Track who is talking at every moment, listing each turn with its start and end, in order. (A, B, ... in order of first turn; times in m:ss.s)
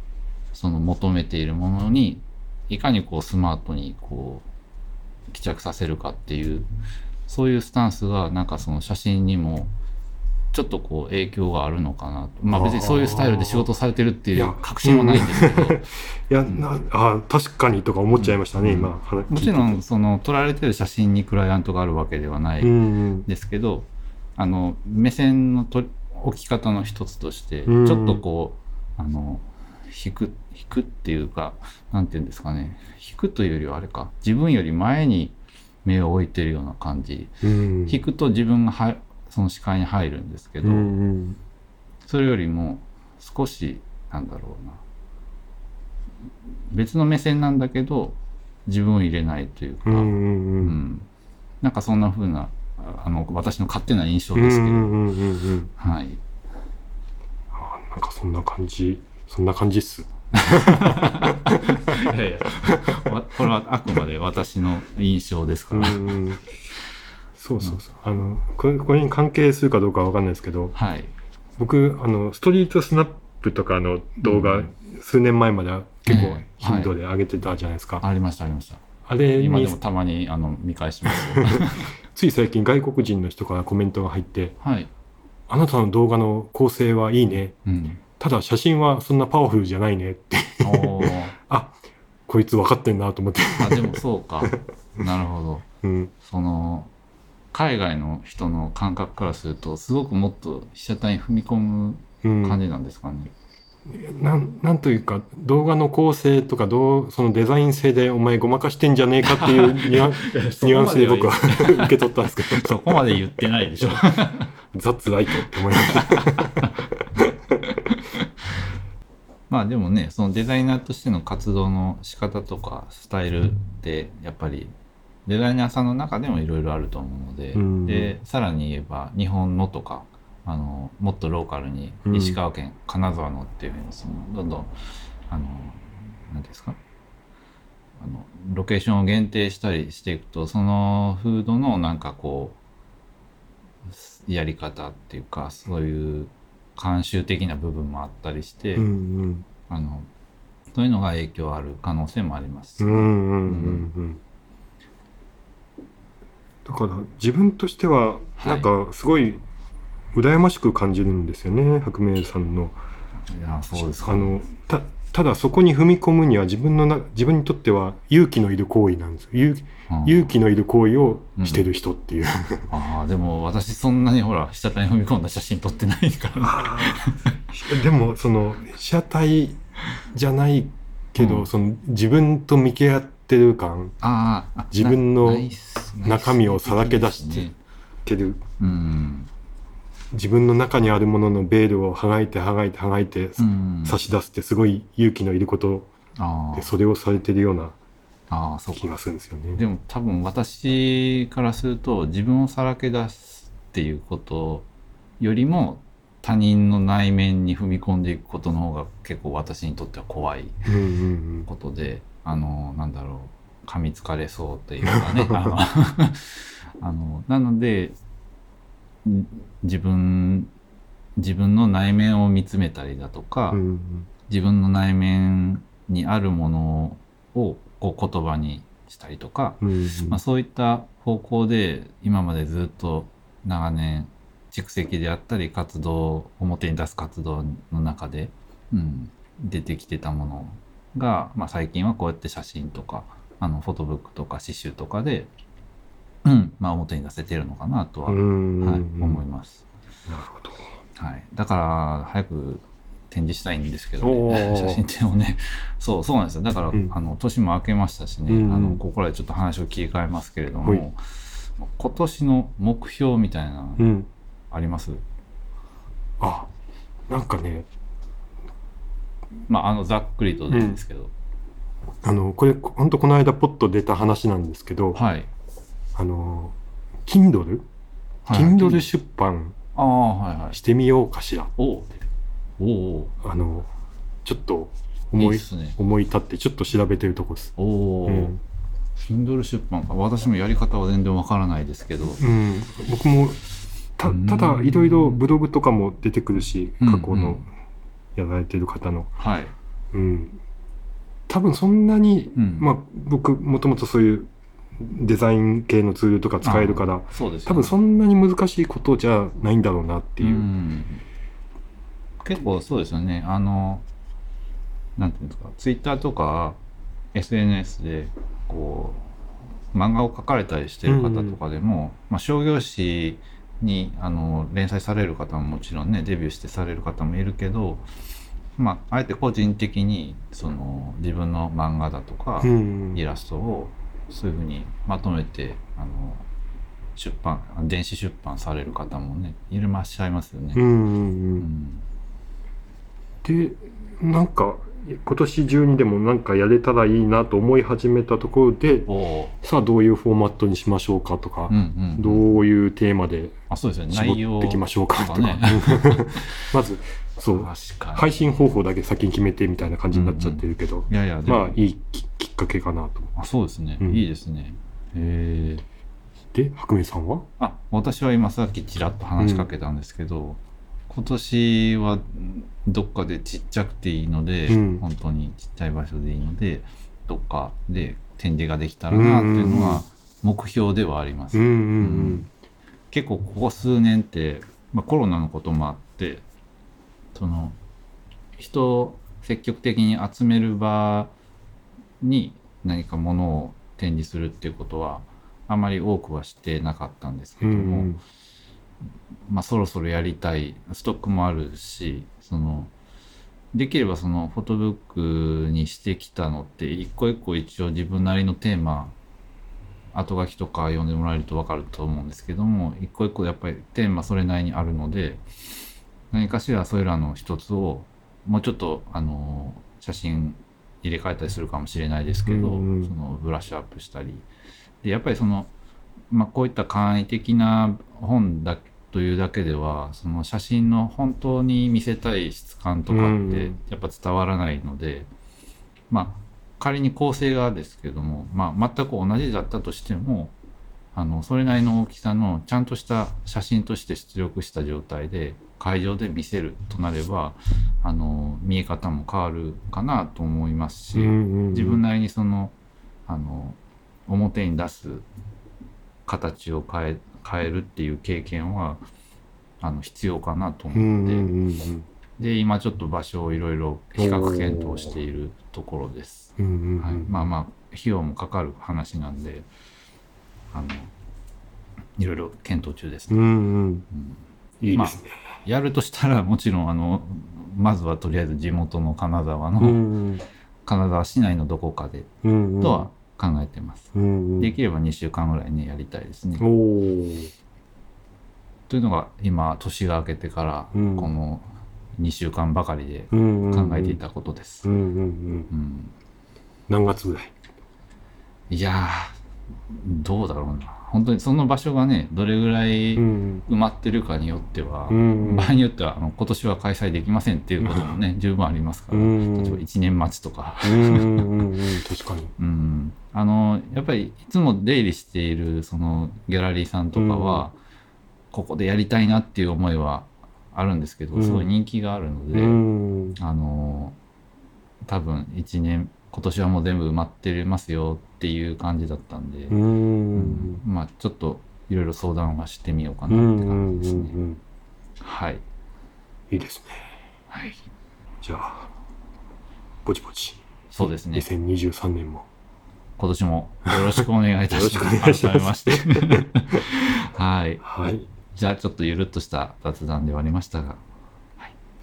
0:00.5-0:04.5 A
0:05.3-0:06.7 A
0:07.3-0:09.7 A
0:10.5-0:15.8 A
0:12.5-0:13.7 B
0:14.4-0:19.8 B
0:18.2-0:40.9 A
0:22.6-0:23.3 B
0:27.7-0:28.2 B
0:37.4-0:38.0 B
0:40.6-0:41.4 B
0:42.0-0:44.8 A
0:46.7-0:51.1 A
0:49.9-0:50.8 B
0:51.6-0:55.0 A
0:54.4-0:55.7 B
0:55.8-0:56.2 A
0:57.5-1:03.1 B
1:00.4-1:06.2 A
1:05.7-1:06.5 B
1:07.4-1:10.8 B
1:10.8-1:11.1 A
1:11.6-1:18.0 B
1:14.2-1:14.7 A
1:16.1-1:16.9 A
1:18.0-1:18.8 A
1:19.1-1:19.8 B
1:19.4-1:21.9 A
1:21.1-1:24.6 B
1:24.6-1:24.9 A
1:25.5-1:27.5 B
1:27.6-1:28.0 A
1:28.2-1:31.8 B
1:30.6-1:31.3 A
1:32.3-1:34.6 B
1:33.6-1:35.7 A
1:35.8-1:36.1 B
1:36.2-1:36.9 A
1:37.5-1:43.3 A
1:42.2-1:42.6 B
1:43.9-1:52.9 B
1:49.2-1:54.5 A
1:54.7-1:57.8 B
1:55.8-1:56.7 A
1:57.9-1:58.3 A
1:59.5-2:04.7 A
2:05.3-2:14.7 A
2:07.5-2:08.2 B
2:12.1-2:12.4 B
2:15.3-2:16.8 A
2:18.0-2:22.6 A
2:23.9-2:28.9 A
2:28.8-2:29.4 B
2:29.7-2:30.1 A
2:30.7-2:33.9 A
2:32.8-2:34.2 B
2:36.6-2:39.4 B
2:38.4-2:38.7 A
2:40.1-2:42.8 B
2:43.3-2:44.4 A
2:44.0-2:52.7 B
2:49.9-2:50.3 A
2:51.4-2:51.7 A
2:52.7-2:57.2 A
2:56.4-3:04.0 B
3:01.2-3:01.5 A
3:04.0-3:07.6 A
3:04.7-3:05.5 B
3:06.0-3:07.5 B
3:08.1-3:08.4 B
3:08.6-3:09.3 A
3:10.1-3:15.9 B
3:13.4-3:14.0 A
3:16.2-3:16.8 A
3:16.5-3:17.8 B
3:18.3-3:18.9 A
3:18.8-3:19.6 B
3:19.6-3:24.7 A
3:25.2-3:30.6 A
3:30.7-3:31.5 B
3:31.5-3:38.0 A
3:34.8-3:35.5 B
3:39.0-3:40.5 A
3:41.2-3:43.6 A
3:43.5-3:44.1 B
3:44.3-4:05.3 A
3:49.6-3:50.2 B
4:06.2-4:09.6 A
4:08.1-4:09.2 B
4:10.1-4:10.8 B
4:11.0-4:23.9 A
4:14.0-4:14.8 B
4:18.3-4:18.8 B
4:23.8-4:24.1 B
4:24.5-4:25.0 A
4:26.2-4:26.5 B
4:27.1-4:27.7 B
4:29.5-4:31.1 A
4:30.5-4:30.8 B
4:32.0-4:35.0 B
4:35.0-4:35.3 A
4:36.0-4:36.6 B
4:37.1-4:37.6 B
4:38.3-4:38.9 A
4:38.3-4:39.6 B
4:39.8-4:40.6 A
4:40.5-4:41.5 B
4:41.6-4:42.0 A
4:42.6-4:43.2 A
4:43.2-4:43.7 B
4:44.2-4:47.5 B
4:45.2-4:45.8 A
4:47.6-4:48.4 A
4:48.1-4:48.4 B
4:49.0-4:52.2 A
4:52.2-4:53.4 B
4:54.0-4:57.5 B
4:54.0-4:55.2 A
4:56.8-4:57.4 A
4:58.2-4:59.1 B
4:59.2-4:59.5 A
4:59.9-5:00.4 B
5:01.3-5:04.3 B
5:02.4-5:02.7 A
5:04.8-5:10.5 B
5:06.4-5:07.7 A
5:10.2-5:11.0 A
5:12.2-5:13.8 A
5:15.0-5:16.6 A
5:17.1-5:19.1 A
5:19.7-5:27.8 A
5:20.9-5:21.4 B
5:28.6-5:36.3 A
5:32.4-5:33.0 B
5:37.0-5:40.6 A
5:40.6-5:41.5 B
5:41.4-5:41.8 A
5:43.2-5:48.9 B
5:48.9-5:49.4 A
5:49.4-5:53.4 B
5:51.5-5:52.2 A
5:53.5-5:56.3 A
5:53.9-6:03.1 B
5:57.3-5:58.1 A
5:59.9-6:01.6 A
6:03.2-6:05.6 A
6:06.3-6:07.3 B
6:07.4-6:22.3 A
6:09.2-6:09.5 B
6:14.5-6:14.8 B
6:18.9-6:19.8 B
6:21.3-6:22.3 B
6:22.9-6:26.2 A
6:27.1-6:27.6 A
6:28.4-6:31.1 A
6:32.0-6:37.9 A
6:37.4-6:38.0 B
6:39.3-6:42.7 A
6:43.5-6:49.0 A
6:49.9-6:55.2 A
6:56.1-7:04.3 A
7:02.3-7:02.9 B
7:04.8-7:05.5 A
7:06.1-7:15.1 A
7:12.9-7:13.6 B
7:15.9-7:20.4 A
7:20.9-7:32.6 A
7:30.9-7:31.8 B
7:33.1-7:35.1 A
7:36.1-7:38.8 A
7:39.6-7:41.3 A
7:40.7-7:41.9 B
7:42.2-7:49.5 A
7:44.0-7:45.0 B
7:46.4-7:47.2 B
7:50.5-7:50.9 A
7:52.0-7:53.2 A
7:53.1-7:53.9 B
7:53.9-7:54.2 A
7:54.6-7:55.1 B
7:54.7-7:59.8 A
7:59.6-8:00.2 B
8:00.6-8:02.1 A
8:02.2-8:02.9 B
8:02.6-8:03.9 A
8:03.9-8:04.5 B
8:04.4-8:06.4 A
8:06.4-8:07.3 B
8:08.7-8:11.5 A
8:10.7-8:11.1 B
8:12.0-8:14.7 A
8:13.1-8:14.0 B
8:14.6-8:15.5 B
8:15.5-8:16.0 A
8:16.7-8:17.3 B
8:18.5-8:19.2 A
8:19.7-8:31.3 A
8:23.0-8:23.4 B
8:24.9-8:25.6 B
8:27.6-8:27.9 B
8:28.9-8:29.6 B
8:30.6-8:32.3 B
8:32.4-8:37.6 A
8:37.0-8:37.5 B
8:38.3-8:42.6 A
8:41.2-8:41.5 B
8:42.3-8:43.2 B
8:43.2-8:44.0 A
8:44.8-8:49.6 A
8:49.5-8:50.6 B
8:50.2-8:54.2 A
8:53.1-8:54.4 B
8:55.0-8:55.4 A
8:56.3-8:56.8 B
8:57.3-8:57.7 A
8:58.2-8:58.7 B
8:59.8-9:02.3 B
9:00.7-9:01.2 A
9:03.0-9:07.6 A
9:04.5-9:06.6 B
9:07.6-9:08.1 B
9:08.3-9:10.8 A